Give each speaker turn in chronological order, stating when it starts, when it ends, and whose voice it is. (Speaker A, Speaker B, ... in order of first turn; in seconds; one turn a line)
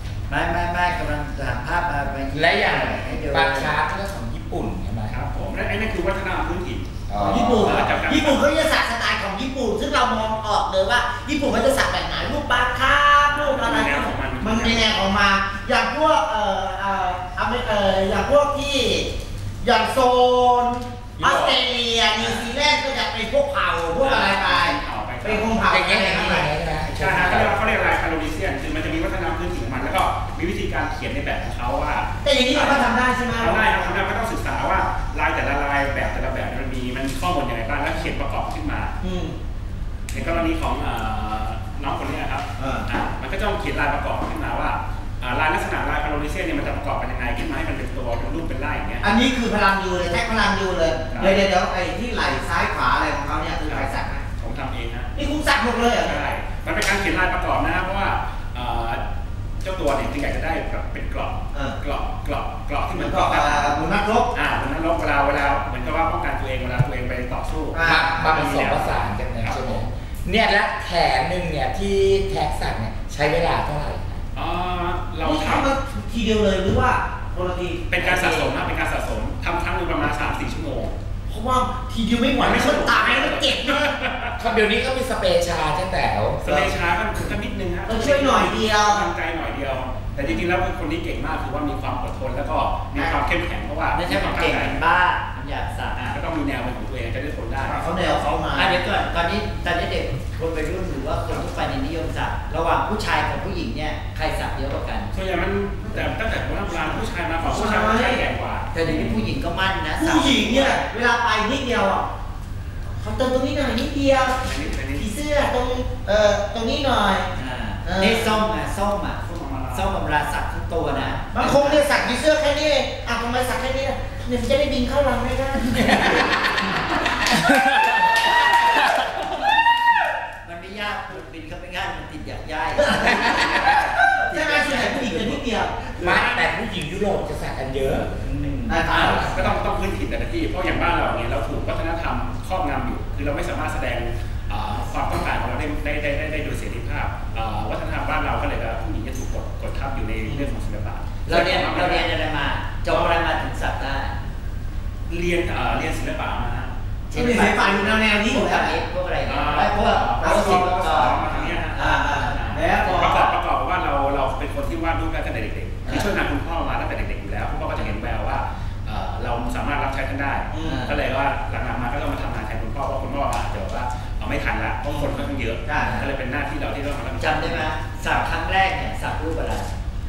Speaker A: 0.3-3.8
Speaker B: 2.3-5.2
Speaker C: 5.1-8.5
Speaker B: 7.1-7.9
Speaker D: 7.2-19.1
Speaker C: 13.3-14.9
Speaker D: 19.6-26.5
Speaker C: 21.2-21.6
Speaker C: 24.0-25.5
Speaker B: 25.7-27.6
Speaker C: 26.8-39.0
Speaker D: 32.2-33.7
Speaker D: 39.0-39.3
Speaker C: 40.1-49.1
Speaker D: 42.6-42.9
Speaker D: 49.0-54.2
Speaker C: 51.0-51.4
Speaker C: 53.6-55.1
Speaker D: 55.1-56.2
Speaker C: 55.9-59.0
Speaker C: 59.6-69.8
Speaker D: 61.5-61.8
Speaker D: 62.9-64.3
Speaker D: 67.7-68.3
Speaker B: 67.8-74.2
Speaker C: 74.3-75.7
Speaker D: 75.2-78.5
Speaker C: 77.9-80.9
Speaker D: 81.3-84.0
Speaker C: 82.4-84.3
Speaker B: 84.4-86.4
Speaker C: 86.4-94.8
Speaker D: 86.5-86.7
Speaker D: 87.8-89.1
Speaker A: 93.9-96.1
Speaker C: 95.9-97.8
Speaker D: 97.6-98.8
Speaker A: 98.5-105.1
Speaker C: 105.1-109.3
Speaker D: 105.8-106.1
Speaker D: 106.7-108.2
Speaker A: 108.7-110.8
Speaker D: 110.0-112.1
Speaker D: 113.0-117.3
Speaker C: 114.4-115.0
Speaker A: 117.3-121.9
Speaker D: 117.8-118.3
Speaker C: 119.2-120.0
Speaker D: 121.3-126.5
Speaker A: 130.4-135.4
Speaker D: 132.8-136.4
Speaker C: 133.1-134.0
Speaker B: 136.0-139.6
Speaker A: 138.2-138.8
Speaker D: 138.7-139.2
Speaker C: 138.9-152.1
Speaker A: 151.2-154.2
Speaker C: 155.1-156.7
Speaker A: 157.1-161.6
Speaker D: 157.1-158.8
Speaker C: 159.2-177.7
Speaker D: 160.2-163.3
Speaker D: 170.5-170.8
Speaker A: 170.6-171.0
Speaker D: 174.8-176.0
Speaker A: 175.8-176.1
Speaker A: 177.2-179.7